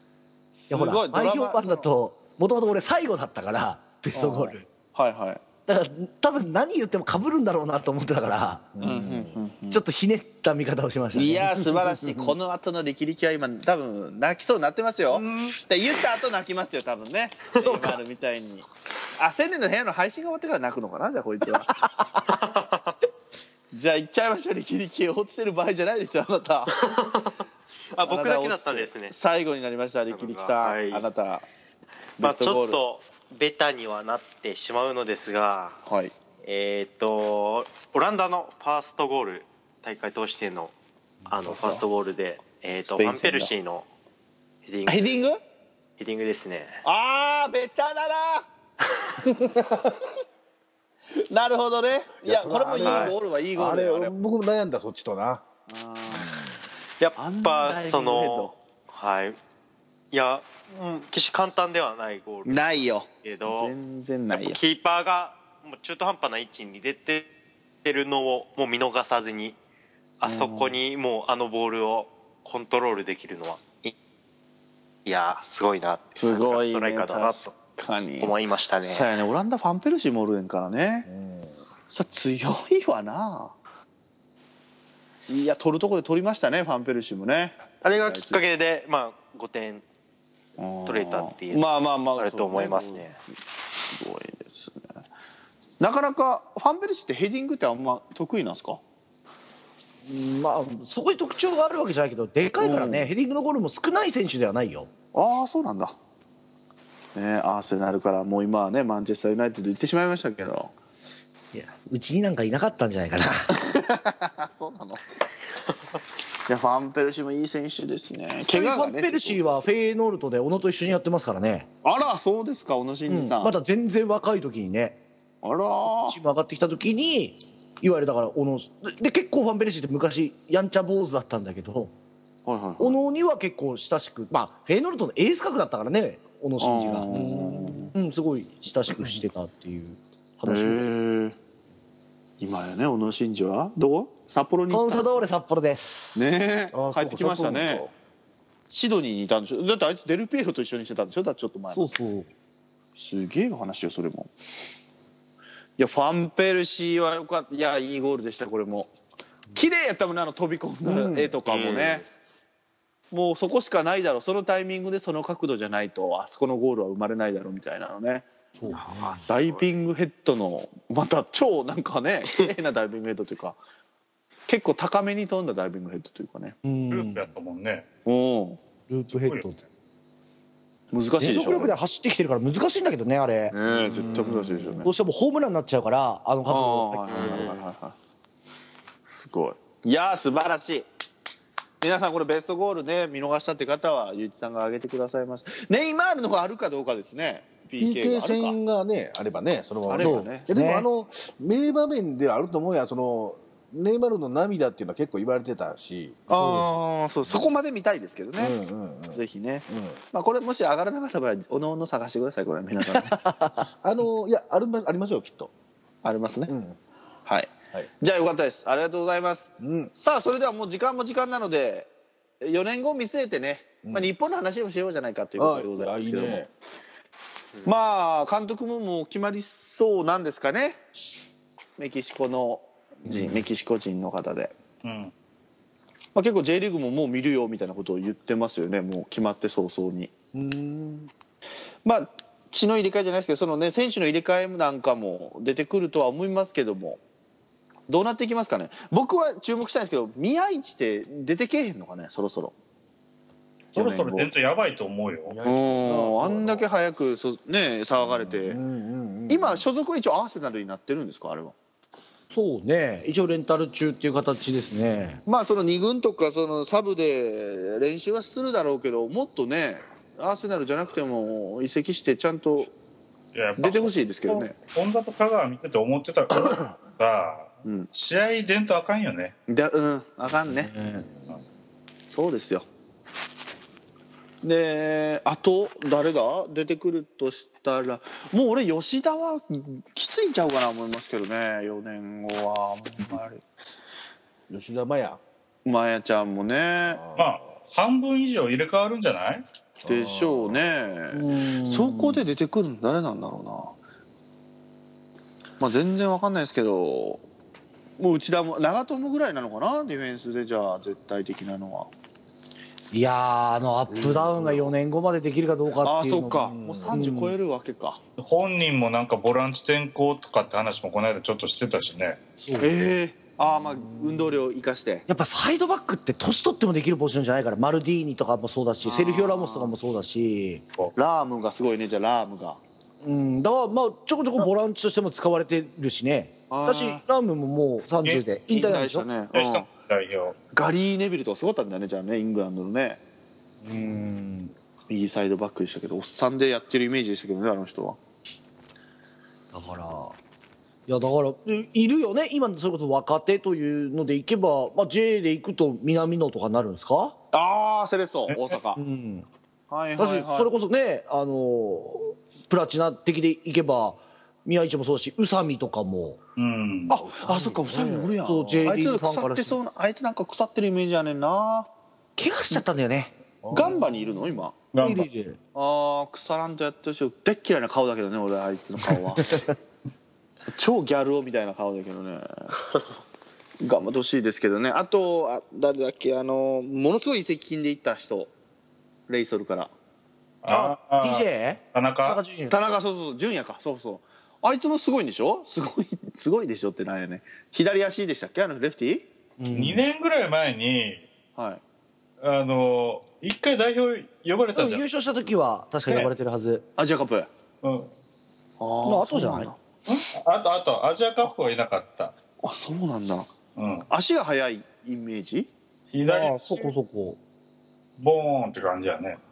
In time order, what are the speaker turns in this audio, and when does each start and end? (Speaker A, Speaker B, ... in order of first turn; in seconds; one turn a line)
Speaker A: 0.5-1.9
Speaker B: 0.7-4.7
Speaker A: 4.2-5.4
Speaker B: 5.7-8.7
Speaker C: 8.8-9.4
Speaker A: 8.8-9.8
Speaker B: 9.7-11.6
Speaker A: 11.1-18.7
Speaker C: 12.1-12.3
Speaker A: 19.2-22.2
Speaker D: 22.2-22.9
Speaker A: 23.7-26.8
Speaker D: 26.7-27.4
Speaker D: 27.9-29.1
Speaker A: 28.0-31.5
Speaker D: 30.1-31.1
Speaker A: 32.2-32.8
Speaker D: 32.2-35.8
Speaker A: 35.9-36.1
Speaker D: 36.4-40.7
Speaker D: 41.3-43.9
Speaker A: 41.5-41.8
Speaker A: 42.8-43.5
Speaker D: 44.6-45.2
Speaker A: 44.9-45.4
Speaker D: 46.0-46.8
Speaker A: 46.8-48.5
Speaker C: 49.4-49.9
Speaker A: 51.2-54.1
Speaker C: 52.2-55.4
Speaker D: 52.8-53.1
Speaker A: 55.7-56.4
Speaker C: 56.1-56.6
Speaker D: 57.0-59.4
Speaker A: 57.2-58.5
Speaker D: 60.1-63.7
Speaker A: 62.5-64.6
Speaker D: 64.3-67.3
Speaker D: 67.8-69.6
Speaker D: 70.2-74.0
Speaker A: 70.2-70.8
Speaker D: 75.0-77.5
Speaker A: 76.2-81.1
Speaker D: 78.2-79.1
Speaker C: 81.1-81.6
Speaker A: 81.9-83.5
Speaker A: 85.3-88.5
Speaker D: 87.8-89.8
Speaker A: 90.6-93.1
Speaker D: 90.9-93.2
Speaker A: 93.9-94.9
Speaker A: 95.8-98.8
Speaker B: 100.1-104.9
Speaker A: 102.6-103.1
Speaker A: 105.1-106.0
Speaker A: 107.2-110.7
Speaker B: 111.5-113.6
Speaker A: 113.6-115.0
Speaker A: 116.5-119.6
Speaker B: 118.5-121.7
Speaker A: 121.8-123.5
Speaker B: 123.1-125.0
Speaker A: 125.4-126.2
Speaker B: 125.8-131.9
Speaker A: 132.5-133.0
Speaker B: 132.8-137.1
Speaker A: 136.6-137.9
Speaker C: 137.1-137.9
Speaker B: 137.9-140.9
Speaker A: 140.5-141.4
Speaker A: 142.4-145.2
Speaker B: 144.7-146.3
Speaker A: 146.2-147.8
Speaker C: 146.7-147.9
Speaker A: 148.7-151.8
Speaker B: 151.7-152.3
Speaker A: 153.0-154.3
Speaker A: 155.8-158.9
Speaker A: 159.6-162.1
Speaker C: 160.8-161.4
Speaker D: 161.5-162.1
Speaker A: 163.1-168.3
Speaker B: 168.6-169.4
Speaker D: 169.0-169.6
Speaker A: 169.3-173.6
Speaker A: 174.5-176.6
Speaker B: 176.6-177.3
Speaker E: 176.9-177.9
Speaker A: 178.1-178.6
Speaker B: 178.9-179.6
Speaker E: 179.1-179.4
Speaker A: 180.9-181.8
Speaker B: 181.2-183.6
Speaker A: 183.5-184.9
Speaker C: 183.6-184.9
Speaker B: 184.8-187.5
Speaker A: 186.5-188.0
Speaker D: 187.1-187.6
Speaker A: 189.0-190.9
Speaker A: 191.8-198.6
Speaker C: 197.8-206.3
Speaker A: 199.9-200.5
Speaker B: 200.0-200.9
Speaker B: 206.3-206.7
Speaker A: 206.3-208.6
Speaker C: 207.2-207.5
Speaker C: 208.4-210.0
Speaker A: 209.1-213.3
Speaker B: 213.1-213.6
Speaker C: 213.8-215.5
Speaker A: 216.0-216.5
Speaker C: 216.5-216.8
Speaker A: 217.3-226.4
Speaker C: 219.6-219.9
Speaker C: 223.8-224.1
Speaker C: 225.4-226.5
Speaker A: 227.7-230.8
Speaker A: 231.8-234.5
Speaker C: 233.1-233.4
Speaker E: 234.8-235.1
Speaker A: 236.2-240.1
Speaker C: 240.3-241.1
Speaker A: 241.8-247.0
Speaker A: 247.9-252.5
Speaker A: 253.7-254.3
Speaker E: 253.8-255.4
Speaker C: 255.3-256.7
Speaker A: 255.4-258.6
Speaker C: 258.0-259.7
Speaker A: 259.3-261.6
Speaker B: 262.3-265.2
Speaker A: 265.3-272.7
Speaker E: 273.3-279.4
Speaker A: 273.6-274.5
Speaker A: 277.6-277.9
Speaker A: 279.5-280.7
Speaker B: 280.5-281.1
Speaker A: 282.1-282.7
Speaker A: 284.4-293.4
Speaker C: 294.5-295.2
Speaker A: 295.6-297.0
Speaker C: 296.9-297.4
Speaker E: 297.2-299.4
Speaker C: 299.8-300.7
Speaker A: 299.9-303.7
Speaker B: 301.1-302.2
Speaker A: 305.6-307.2
Speaker A: 308.0-311.9
Speaker B: 312.9-317.4
Speaker C: 313.9-314.7
Speaker A: 315.8-318.0
Speaker C: 316.5-317.0
Speaker E: 318.2-322.2
Speaker B: 322.4-322.7
Speaker A: 322.6-325.1
Speaker C: 323.5-324.4
Speaker B: 325.1-330.6
Speaker A: 328.8-329.7
Speaker A: 331.0-332.6
Speaker B: 333.0-339.1
Speaker A: 336.5-337.0
Speaker A: 338.5-339.7
Speaker E: 339.3-340.4
Speaker A: 340.5-343.0
Speaker B: 343.6-344.5
Speaker A: 344.9-348.0
Speaker B: 349.5-350.2
Speaker B: 350.9-357.2
Speaker A: 357.3-358.8
Speaker B: 358.8-359.3
Speaker A: 359.7-360.5
Speaker B: 360.0-366.2
Speaker E: 366.4-366.9
Speaker A: 366.9-371.7
Speaker C: 366.9-368.2
Speaker B: 368.2-369.6
Speaker B: 372.2-373.1
Speaker C: 373.4-374.4
Speaker A: 373.5-374.6
Speaker E: 374.7-375.1
Speaker B: 374.8-375.4
Speaker A: 375.6-379.5
Speaker A: 380.5-382.6
Speaker A: 383.6-388.3
Speaker A: 389.1-389.7
Speaker E: 390.4-392.2
Speaker B: 390.5-392.7
Speaker A: 392.5-399.1
Speaker B: 399.4-399.8
Speaker E: 399.5-401.1
Speaker A: 401.4-401.6
Speaker E: 402.2-404.8
Speaker B: 404.6-406.6
Speaker A: 406.8-407.3
Speaker E: 407.6-407.9
Speaker A: 408.6-409.6
Speaker B: 408.8-409.5
Speaker E: 409.9-412.1
Speaker A: 412.4-413.3
Speaker E: 413.6-413.9
Speaker A: 413.9-415.5
Speaker E: 415.9-416.7
Speaker B: 416.1-417.2
Speaker E: 418.0-419.2